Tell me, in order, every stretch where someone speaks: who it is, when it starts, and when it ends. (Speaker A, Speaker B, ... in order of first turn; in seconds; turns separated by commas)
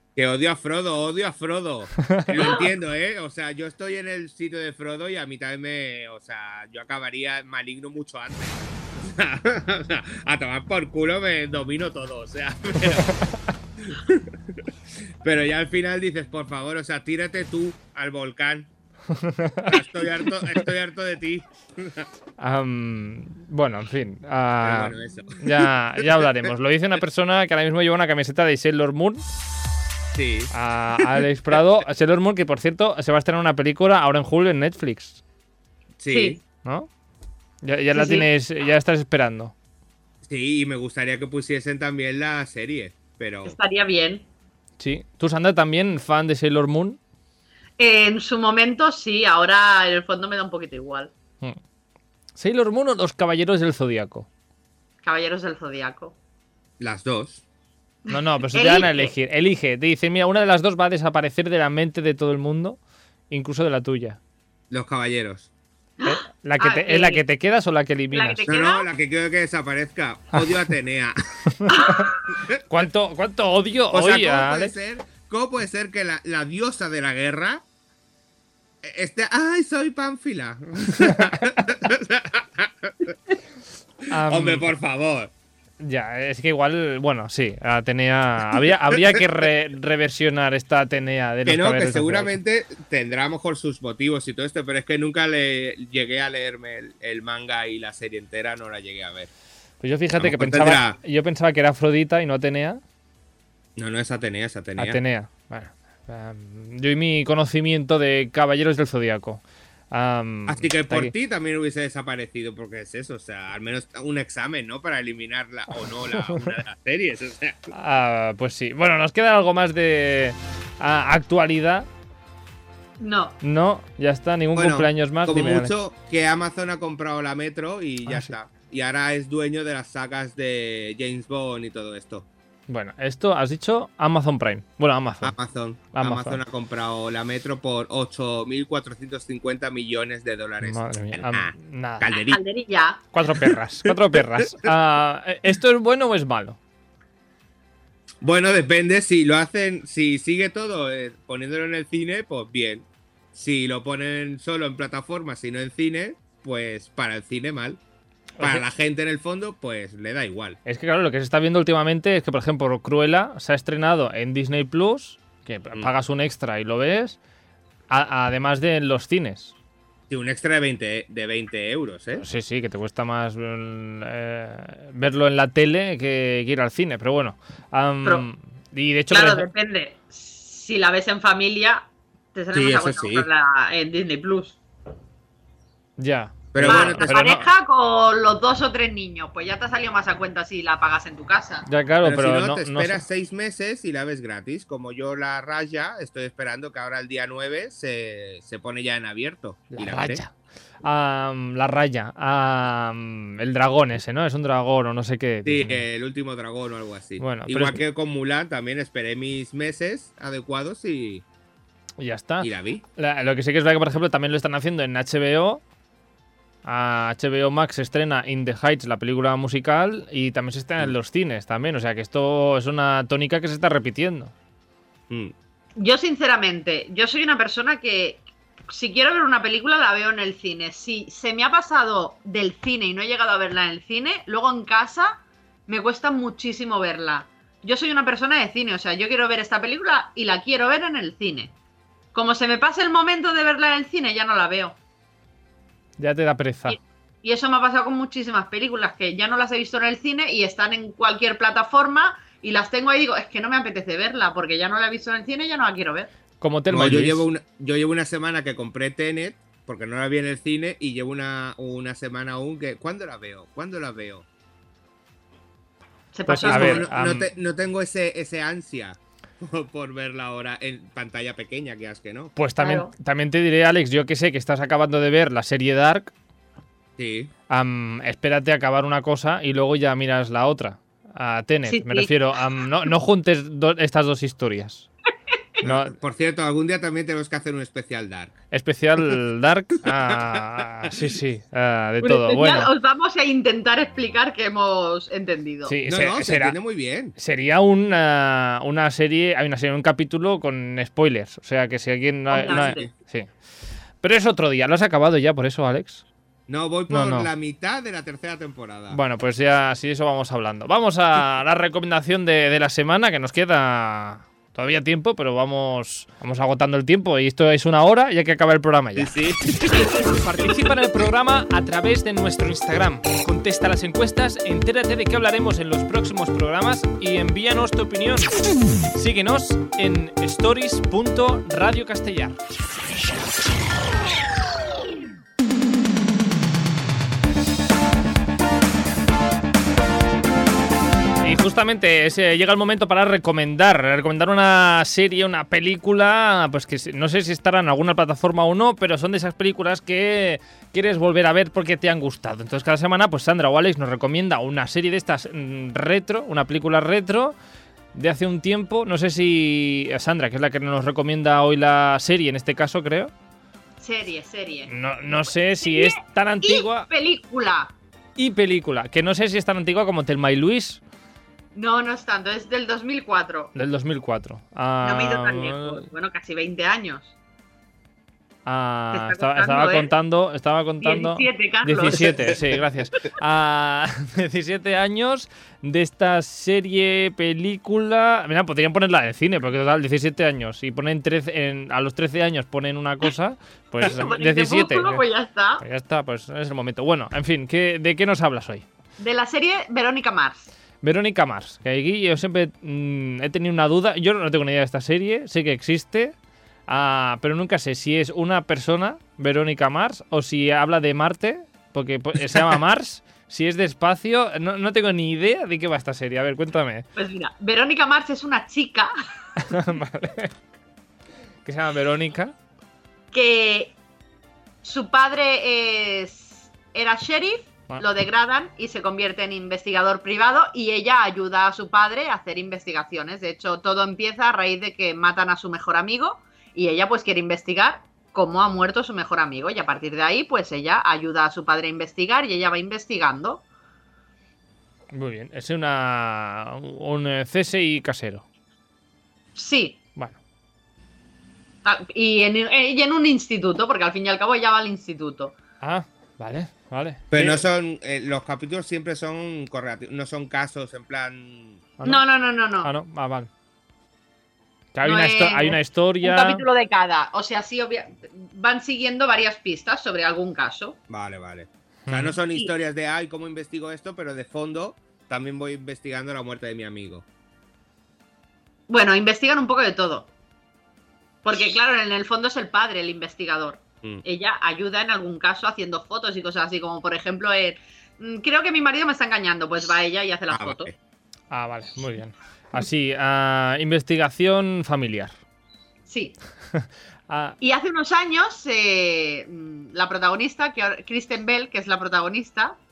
Speaker A: 0.1-13.1, Speaker A: 13.8-14.6, Speaker A: 15.2-18.7, Speaker B: 19.1-19.8, Speaker A: 19.7-22.1, Speaker B: 22.4-29.2, Speaker A: 24.6-26.2, Speaker A: 30.1-31.1, Speaker B: 30.5-35.2, Speaker A: 36.0-36.4, Speaker C: 36.1-36.4, Speaker B: 37.6-39.5, Speaker C: 37.9-38.3, Speaker A: 40.2-43.6, Speaker C: 43.4-44.2, Speaker B: 44.8-47.0, Speaker C: 47.8-51.1, Speaker B: 52.4-54.3, Speaker C: 55.0-56.1, Speaker A: 56.8-57.4, Speaker C: 58.1-59.1, Speaker B: 58.1-62.8, Speaker B: 63.3-64.2, Speaker A: 64.7-65.5, Speaker C: 66.0-67.2, Speaker B: 66.0-68.4, Speaker C: 68.1-68.8, Speaker A: 68.5-71.2, Speaker B: 71.5-72.1, Speaker C: 71.7-72.2, Speaker B: 72.7-74.7, Speaker A: 73.9-77.6, Speaker A: 78.8-83.2, Speaker B: 81.0-81.5, Speaker B: 84.1-84.7, Speaker A: 84.2-85.3, Speaker B: 85.8-92.3, Speaker A: 91.4-99.3, Speaker B: 99.8-102.8, Speaker A: 100.2-101.0, Speaker A: 103.8-105.0, Speaker B: 104.8-111.1, Speaker A: 110.5-117.7, Speaker B: 117.7-121.9, Speaker C: 123.0-123.4, Speaker B: 123.4-125.8, Speaker A: 124.5-132.3, Speaker B: 128.1-128.3, Speaker B: 132.7-135.3, Speaker A: 135.2-142.4, Speaker B: 135.9-136.4, Speaker B: 140.6-142.1, Speaker C: 142.1-143.0, Speaker B: 143.1-146.6, Speaker A: 143.8-144.7, Speaker A: 148.2-157.8, Speaker B: 158.4-158.6, Speaker A: 158.4-160.6, Speaker B: 160.7-167.2, Speaker B: 167.9-169.5, Speaker A: 170.1-172.2, Speaker B: 172.2-179.5, Speaker C: 179.1-184.6, Speaker A: 182.5-183.3, Speaker B: 186.0-187.5, Speaker A: 186.5-187.1, Speaker C: 186.6-191.7, Speaker B: 191.7-193.0, Speaker A: 192.0-200.2, Speaker B: 199.7-200.3, Speaker B: 200.8-205.8, Speaker A: 205.4-211.2, Speaker B: 207.2-207.8, Speaker B: 212.0-215.6, Speaker A: 212.4-212.8, Speaker B: 216.6-224.3, Speaker C: 225.8-241.5, Speaker C: 242.1-244.8, Speaker B: 246.0-246.8, Speaker C: 246.7-256.1, Speaker B: 256.4-257.2, Speaker A: 256.7-264.2, Speaker C: 266.1-266.9, Speaker B: 266.2-267.3, Speaker A: 266.4-272.3, Speaker B: 272.4-276.1, Speaker C: 272.6-272.9, Speaker A: 277.0-277.3, Speaker B: 277.5-284.9, Speaker C: 281.7-282.2, Speaker B: 285.6-285.9, Speaker A: 285.6-288.3, Speaker B: 288.5-292.7, Speaker A: 290.1-290.4, Speaker C: 292.0-295.7, Speaker B: 295.7-296.6, Speaker A: 295.9-297.1, Speaker B: 297.1-303.3, Speaker C: 302.3-302.9, Speaker B: 304.0-306.0, Speaker A: 306.5-309.0, Speaker B: 306.9-307.3, Speaker B: 308.9-319.1, Speaker A: 318.9-320.1, Speaker B: 319.7-328.3, Speaker B: 328.9-332.4, Speaker B: 341.2-357.3, Speaker B: 357.9-363.1, Speaker C: 363.8-367.7, Speaker B: 364.7-366.9, Speaker B: 368.2-370.8, Speaker C: 371.5-373.5, Speaker B: 373.5-375.9, Speaker C: 374.8-377.1, Speaker B: 378.4-395.0, Speaker C: 378.9-379.9, Speaker C: 380.8-382.4, Speaker A: 382.1-382.6, Speaker C: 393.8-395.6, Speaker B: 395.6-398.6, Speaker C: 399.0-400.5, Speaker B: 400.8-406.1, Speaker B: 406.7-416.9, Speaker C: 416.9-418.9, Speaker B: 419.4-420.3, Speaker B: 421.4-422.3, Speaker C: 423.1-423.7, Speaker C: 424.6-443.4, Speaker B: 444.9-448.2, Speaker C: 449.4-449.8, Speaker C: 451.6-455.3, Speaker B: 455.6-457.4, Speaker A: 457.1-461.6, Speaker C: 461.8-462.7, Speaker B: 462.6-463.3, Speaker B: 464.7-466.4, Speaker C: 464.8-470.8, Speaker A: 470.9-477.0, Speaker B: 471.9-472.2, Speaker C: 478.7-480.1, Speaker C: 481.2-490.7, Speaker A: 490.3-490.7, Speaker B: 491.3-495.1, Speaker C: 495.9-496.1, Speaker B: 496.5-497.4, Speaker C: 497.4-502.6